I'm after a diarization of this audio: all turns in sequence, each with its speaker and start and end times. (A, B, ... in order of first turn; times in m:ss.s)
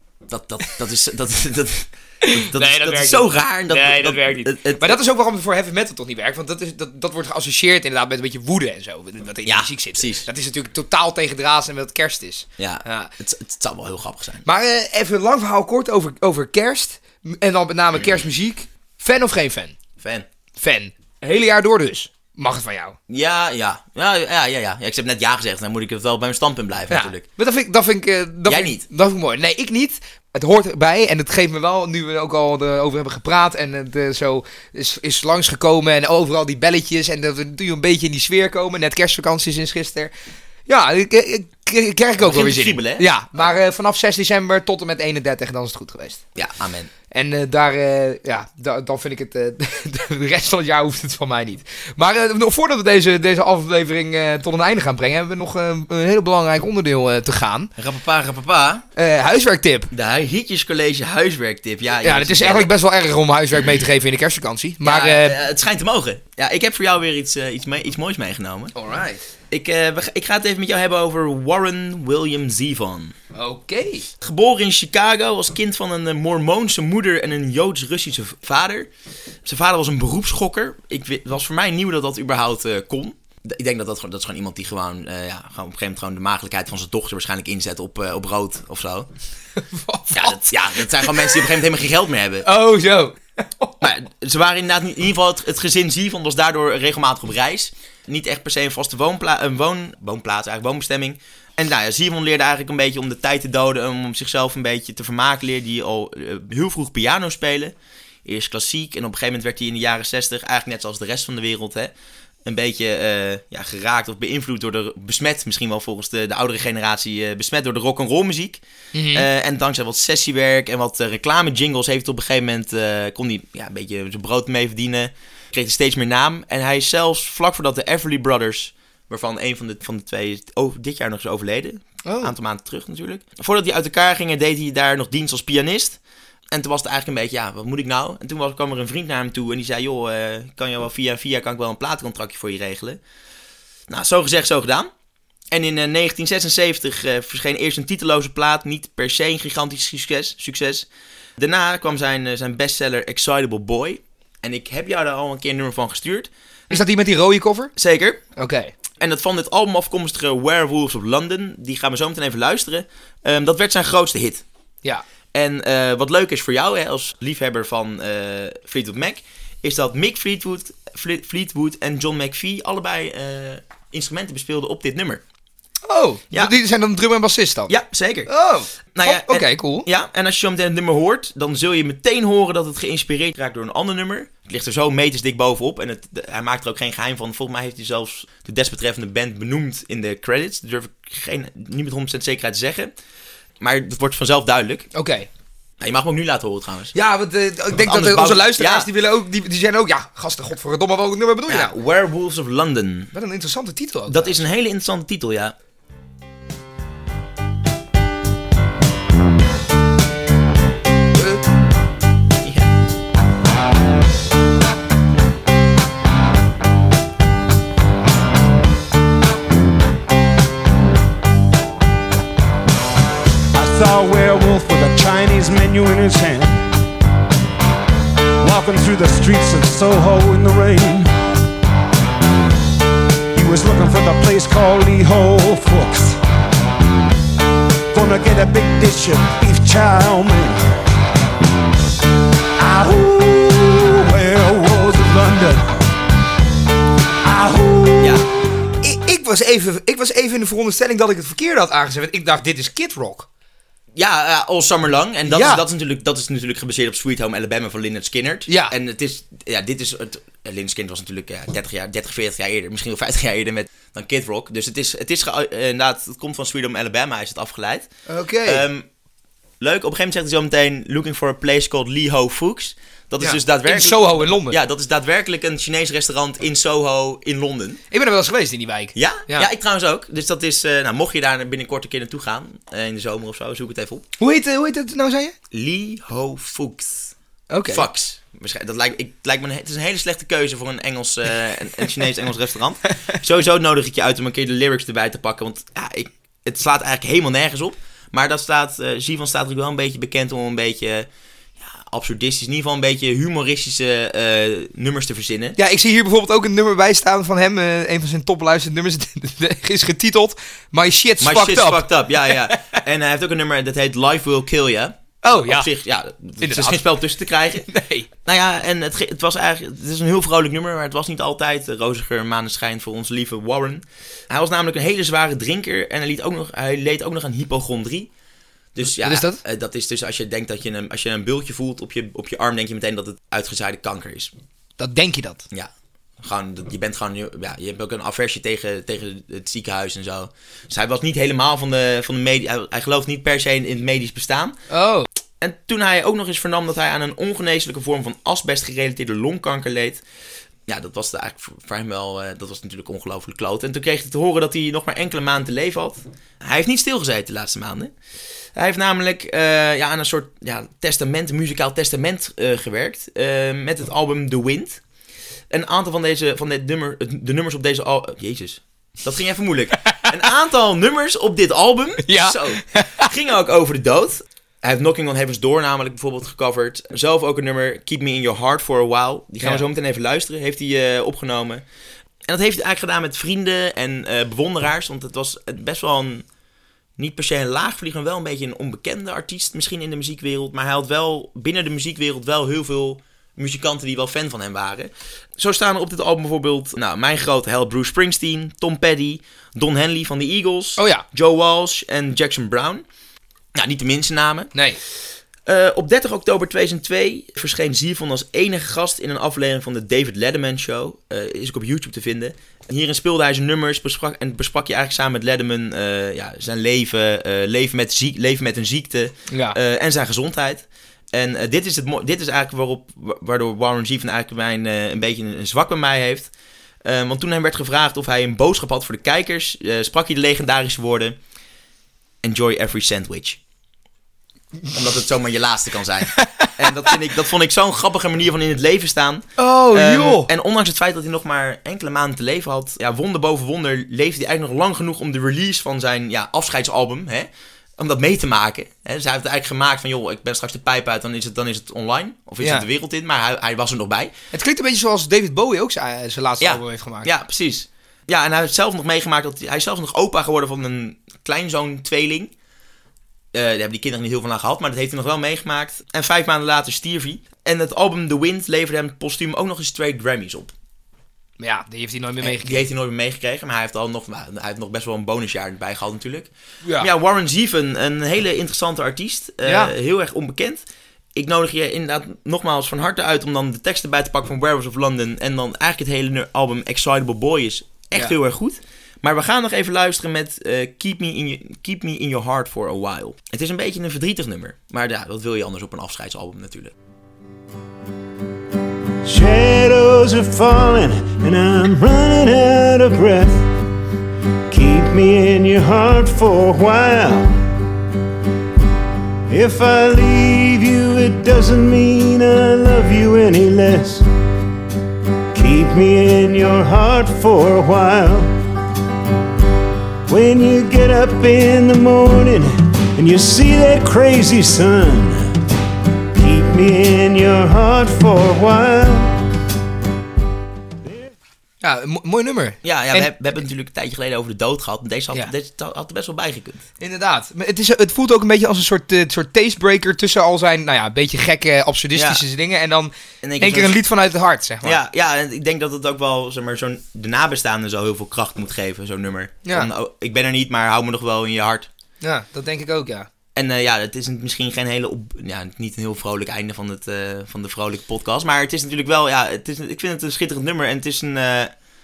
0:00.3-0:05.0 A
0:02.2-0:13.1 B
0:09.4-0:10.3 A
0:12.6-0:14.5 A
0:14.4-0:19.8 B
0:20.0-0:20.3 A
0:20.6-0:23.0 B
0:23.1-0:27.3 A
0:26.9-0:40.1 B
0:28.5-0:28.8 A
0:40.7-0:46.2 B
0:42.2-0:43.1 A
0:46.4-0:46.9 A
0:47.1-0:57.7 B
0:57.8-0:58.9 A
0:59.0-0:59.9 B
0:59.9-1:02.7 A
1:02.0-1:05.4 B
1:04.8-1:08.7 A
1:08.8-1:09.2 B
1:09.5-1:13.2 A
1:13.4-1:14.1 B
1:14.2-1:18.9 A
1:19.4-1:29.1 A
1:29.6-1:31.6 B
1:30.1-1:32.5 A
1:32.4-1:33.9 B
1:33.8-1:51.9 A
1:52.4-1:58.6 A
1:58.9-1:59.3 B
1:59.1-2:16.0 A
2:12.0-2:12.3 B
2:16.5-2:23.0 A
2:23.9-2:24.9 A
2:25.5-2:30.9 A
2:31.4-2:36.8 A
2:36.7-2:37.7 B
2:37.8-2:38.2 A
2:38.4-2:38.7 B
2:39.0-2:44.4 A
2:45.3-2:55.2 A
2:55.8-2:57.7 B
2:57.7-2:58.3 A
2:58.3-2:59.9 B
2:58.9-3:12.9 A
3:13.6-3:14.9 A
3:15.0-3:15.3 B
3:15.8-3:16.9 A
3:16.9-3:21.7 B
3:17.7-3:18.9 A
3:21.5-3:23.1 A
3:23.1-3:24.4 B
3:24.1-3:25.6 A
3:32.4-3:32.7 A
3:43.5-3:46.7 C
3:48.4-3:51.1 C
3:53.3-3:56.2 C
3:57.9-4:00.6 C
4:02.6-4:05.8 C
4:07.2-4:08.2 C
4:08.0-4:08.3 A
4:08.8-4:13.3 B
4:14.0-4:27.9 A
4:15.3-4:15.6 B
4:18.5-4:18.7 B
4:28.1-4:28.7 B
4:28.4-4:28.9 A
4:29.6-4:37.8 A
4:33.2-4:34.6 B
4:37.9-4:39.5 B
4:39.0-4:44.1 A
4:44.2-4:45.3 B
4:45.5-4:47.1 A
4:47.5-4:47.9 B
4:47.7-5:01.1 A
5:01.6-5:05.6 A
5:05.6-5:12.8 B
5:11.2-5:17.7 A
5:15.2-5:15.7 B
5:16.4-5:16.8 B
5:17.6-5:18.1 B
5:18.3-5:28.1 A
5:28.8-5:34.3 A
5:28.9-5:29.4 B
5:34.8-5:35.4 B
5:35.5-5:44.6 A
5:44.7-5:45.1 B
5:45.4-5:50.0 A
5:50.7-5:57.9 A
5:58.6-6:04.8 A
6:05.5-6:21.6 A
6:12.0-6:13.1 B
6:22.3-6:26.3 A
6:27.0-6:42.8 A
6:40.8-6:41.0 B
6:43.6-6:44.5 A
6:44.5-6:44.8 B
6:45.5-7:06.3 A
6:59.3-6:59.6 B
7:06.8-7:11.2 A
7:12.2-7:13.4 A
7:14.7-7:34.1 A
7:16.2-7:16.5 B
7:19.4-7:20.3 B
7:32.4-7:32.7 B
7:34.3-7:37.1 B
7:36.4-7:42.3 A
7:43.3-7:50.5 A
7:51.4-7:52.7 B
7:52.2-8:00.6 A
7:59.4-7:59.7 B
8:01.2-8:16.7 A
8:19.0-8:23.5 D
8:24.5-8:27.4 D
8:29.3-8:34.0 D
8:35.3-8:38.3 D
8:40.1-8:45.3 D
8:46.2-8:49.1 D
8:51.6-8:53.1 B
8:52.6-8:56.6 A
8:56.8-9:04.8 B
9:02.0-9:02.2 A
9:03.2-9:03.8 A
9:04.6-9:11.7 A
9:12.0-9:13.1 B
9:13.4-9:21.5 A